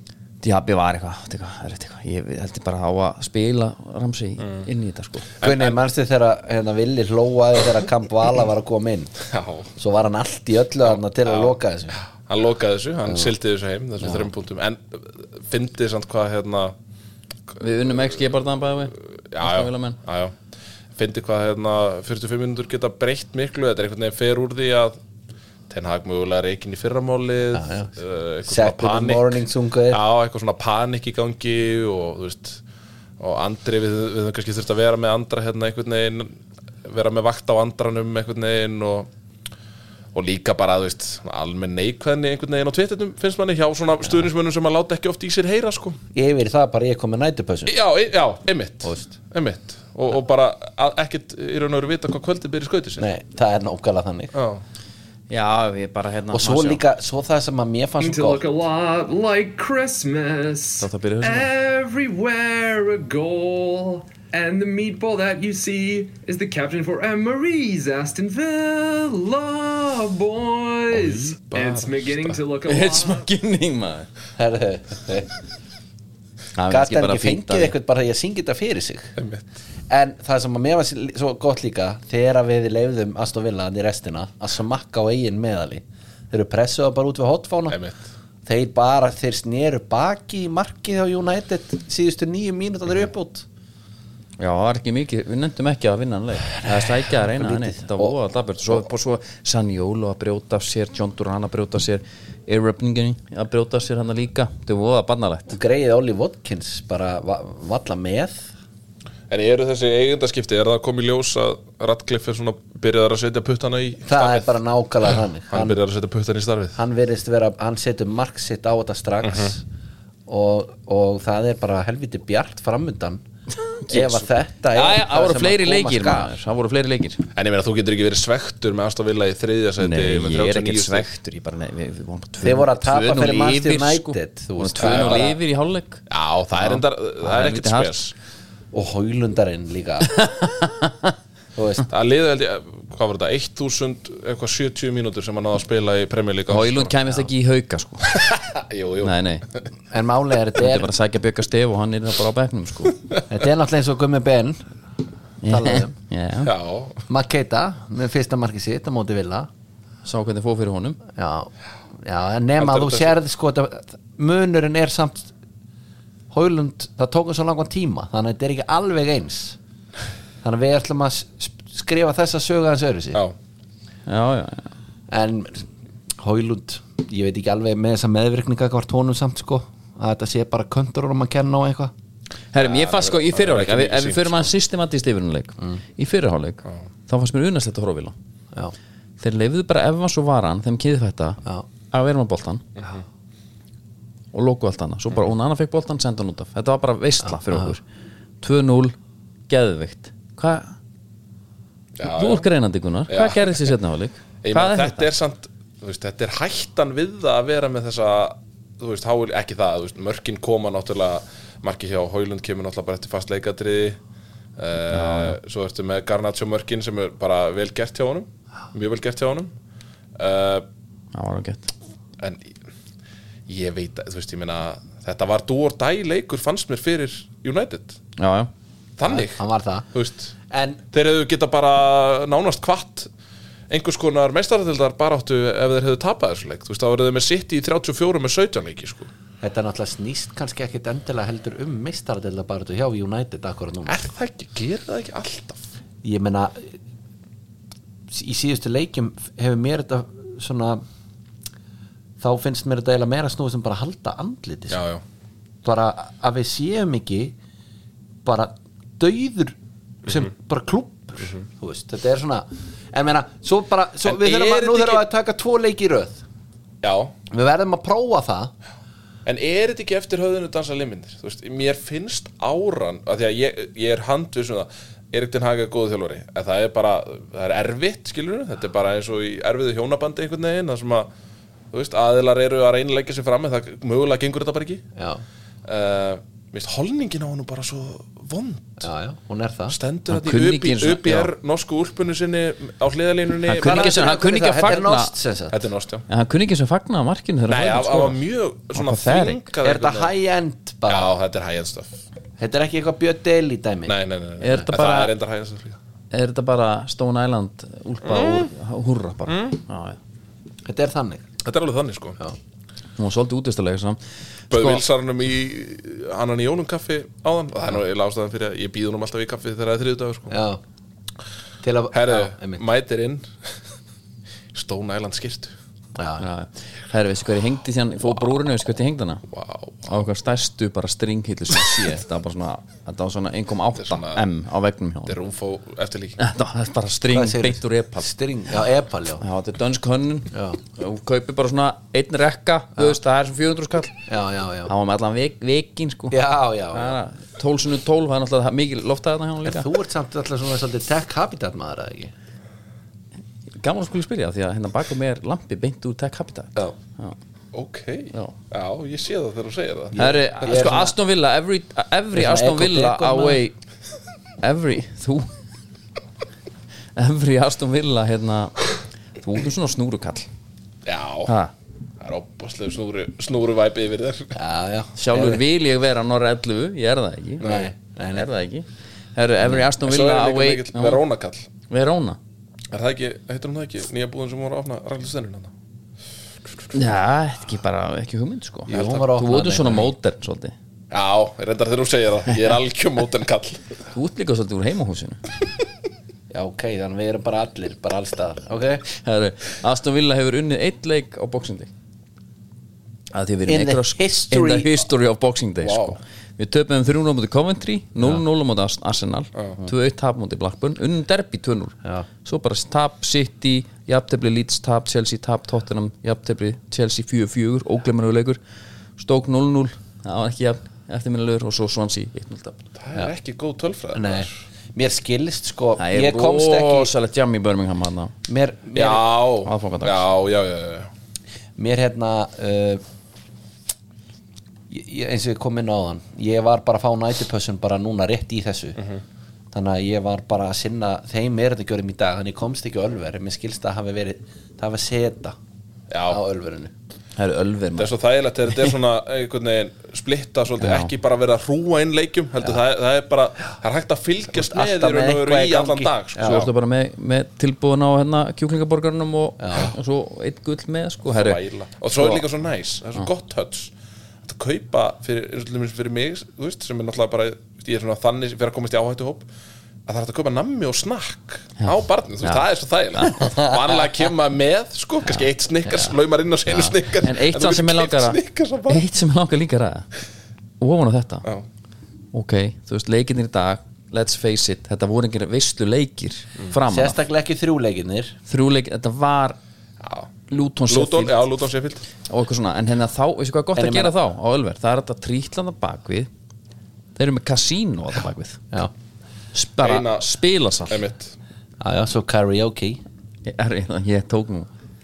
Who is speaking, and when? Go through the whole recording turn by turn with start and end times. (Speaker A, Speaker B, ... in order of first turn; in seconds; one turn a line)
Speaker A: 0.4-5.3
Speaker B: 5.4-5.8
Speaker C: 5.4-9.1
Speaker B: 9.2-9.7
Speaker C: 9.8-12.0
Speaker B: 11.2-16.7
Speaker C: 14.0-14.3
Speaker A: 17.6-20.0
Speaker B: 19.3-20.3
Speaker B: 20.9-25.0
Speaker B: 25.7-32.6
Speaker C: 27.5-27.9
Speaker C: 28.5-30.0
Speaker B: 33.2-39.1
Speaker B: 40.1-46.0
Speaker C: 46.1-47.7
Speaker B: 47.7-53.1
Speaker C: 53.0-54.3
Speaker B: 54.3-54.6
Speaker A: 55.3-56.8
Speaker C: 56.3-58.4
Speaker D: 58.0-73.2
Speaker A: 60.8-61.5
Speaker B: 70.9-72.4
Speaker A: 72.7-74.1
Speaker C: 74.4-75.3
Speaker A: 76.5-77.7
Speaker C: 76.7-79.1
Speaker B: 79.2-79.4
Speaker C: 79.9-87.8
Speaker B: 87.7-88.0
Speaker C: 88.4-93.5
Speaker A: 94.4-105.5
Speaker C: 96.5-98.2
Speaker C: 105.5-108.5
Speaker B: 109.3-114.6
Speaker C: 114.0-115.8
Speaker B: 115.5-116.8
Speaker C: 116.8-119.6
Speaker B: 119.2-119.5
Speaker C: 120.3-123.2
Speaker A: 123.8-127.2
Speaker C: 123.9-126.3
Speaker B: 127.3-131.1
Speaker A: 129.8-136.0
Speaker C: 132.4-135.4
Speaker B: 134.8-135.3
Speaker B: 136.1-138.1
Speaker A: 136.6-137.9
Speaker C: 138.7-140.1
Speaker A: 140.1-141.1
Speaker C: 141.6-141.9
Speaker B: 141.9-146.9
Speaker A: 146.5-148.1
Speaker B: 148.1-149.6
Speaker A: 149.0-149.4
Speaker C: 149.9-150.9
Speaker A: 150.6-153.0
Speaker C: 153.3-154.6
Speaker A: 155.4-156.5
Speaker C: 155.4-155.9
Speaker B: 156.4-157.0
Speaker C: 157.1-159.5
Speaker A: 160.0-161.0
Speaker C: 161.1-165.3
Speaker B: 162.6-163.1
Speaker C: 166.3-169.6
Speaker C: 170.4-173.2
Speaker A: 174.1-174.7
Speaker C: 175.1-181.9
Speaker A: 182.5-188.1
Speaker B: 182.6-184.5
Speaker A: 189.2-192.6
Speaker A: 194.3-197.8
Speaker C: 197.4-197.7
Speaker A: 198.4-198.9
Speaker A: 199.5-200.7
Speaker B: 202.0-202.5
Speaker A: 202.0-205.1
Speaker B: 203.1-203.7
Speaker B: 204.4-214.0
Speaker B: 214.6-219.5
Speaker A: 214.9-215.4
Speaker B: 220.2-220.7
Speaker A: 221.1-221.7
Speaker B: 222.2-222.5
Speaker B: 223.5-228.0
Speaker A: 228.2-228.5
Speaker B: 229.0-229.4
Speaker C: 229.0-229.9
Speaker B: 229.9-230.3
Speaker C: 230.5-230.8
Speaker B: 230.9-233.1
Speaker B: 233.7-239.1
Speaker C: 239.4-244.0
Speaker B: 243.8-245.6
Speaker C: 246.0-246.7
Speaker C: 248.1-250.8
Speaker C: 252.2-254.8
Speaker B: 254.7-255.0
Speaker C: 255.6-257.4
Speaker C: 258.2-266.2
Speaker B: 264.0-265.1
Speaker B: 266.8-267.1
Speaker C: 267.3-268.5
Speaker B: 269.2-281.1
Speaker B: 281.7-284.8
Speaker C: 284.9-285.2
Speaker B: 285.6-288.9
Speaker C: 288.8-289.8
Speaker B: 289.7-294.1
Speaker A: 290.1-291.3
Speaker A: 293.5-295.1
Speaker C: 293.6-295.6
Speaker B: 295.5-296.1
Speaker A: 296.1-298.2
Speaker B: 297.5-300.1
Speaker A: 298.7-299.4
Speaker C: 299.6-301.1
Speaker B: 300.9-301.9
Speaker C: 302.4-303.9
Speaker B: 303.9-305.8
Speaker A: 304.4-305.1
Speaker A: 306.1-310.0
Speaker B: 308.0-308.5
Speaker B: 309.3-309.6
Speaker C: 310.6-311.3
Speaker B: 311.4-312.2
Speaker A: 313.0-314.0
Speaker A: 314.5-314.8
Speaker B: 314.5-320.3
Speaker C: 320.3-320.6
Speaker C: 321.6-322.6
Speaker B: 321.9-323.3
Speaker B: 324.5-325.5
Speaker C: 325.9-326.2
Speaker A: 326.2-329.2
Speaker B: 329.3-329.9
Speaker A: 329.9-335.1
Speaker B: 333.8-334.2
Speaker B: 335.1-336.2
Speaker A: 336.2-338.1
Speaker C: 337.1-339.2
Speaker A: 339.2-344.0
Speaker C: 340.3-340.6
Speaker C: 344.1-344.7
Speaker A: 344.7-346.2
Speaker C: 346.1-347.0
Speaker A: 346.7-349.7
Speaker C: 349.4-352.1
Speaker A: 353.6-357.1
Speaker B: 357.5-360.0
Speaker C: 359.9-360.9
Speaker A: 359.9-363.5
Speaker C: 362.1-363.4
Speaker A: 364.4-365.3
Speaker A: 366.9-368.6
Speaker A: 369.2-370.3
Speaker B: 370.8-371.3
Speaker A: 371.2-371.5
Speaker B: 372.0-374.4
Speaker C: 374.3-375.4
Speaker A: 374.9-377.4
Speaker B: 377.4-377.7
Speaker C: 377.4-378.3
Speaker A: 378.1-381.0
Speaker B: 379.8-381.5
Speaker A: 381.7-382.2
Speaker B: 382.7-385.5
Speaker A: 386.7-390.5
Speaker C: 388.7-389.9
Speaker B: 390.9-393.6
Speaker A: 393.9-395.2
Speaker C: 396.3-398.8
Speaker A: 398.9-401.7
Speaker A: 403.1-418.4
Speaker C: 403.5-404.9
Speaker B: 405.6-406.0
Speaker A: 419.0-422.6
Speaker B: 422.8-424.3
Speaker C: 423.9-426.9
Speaker A: 425.8-428.1
Speaker C: 428.3-429.1
Speaker B: 428.7-430.9
Speaker A: 429.4-430.0
Speaker C: 431.6-432.8
Speaker C: 434.7-438.8
Speaker C: 439.5-445.3
Speaker B: 445.9-446.2
Speaker C: 446.1-446.7
Speaker A: 447.2-447.9
Speaker B: 447.8-456.5
Speaker A: 450.6-450.9
Speaker C: 454.3-456.5
Speaker A: 456.2-461.4
Speaker C: 459.4-459.7
Speaker B: 461.1-463.7
Speaker A: 461.9-462.2
Speaker B: 464.2-469.2
Speaker B: 469.9-478.8
Speaker A: 471.6-472.4
Speaker A: 472.9-473.3
Speaker C: 475.7-475.9
Speaker C: 476.5-476.8
Speaker A: 477.0-479.9
Speaker A: 480.6-481.2
Speaker A: 482.1-487.0
Speaker C: 486.7-488.1
Speaker A: 488.3-489.4
Speaker B: 489.8-490.1
Speaker A: 490.3-491.2
Speaker B: 490.7-491.8
Speaker A: 492.1-496.1
Speaker C: 493.6-493.9
Speaker A: 496.9-498.4
Speaker A: 499.3-500.8
Speaker B: 499.6-500.1
Speaker B: 500.7-501.1
Speaker C: 501.6-502.8
Speaker A: 503.2-504.5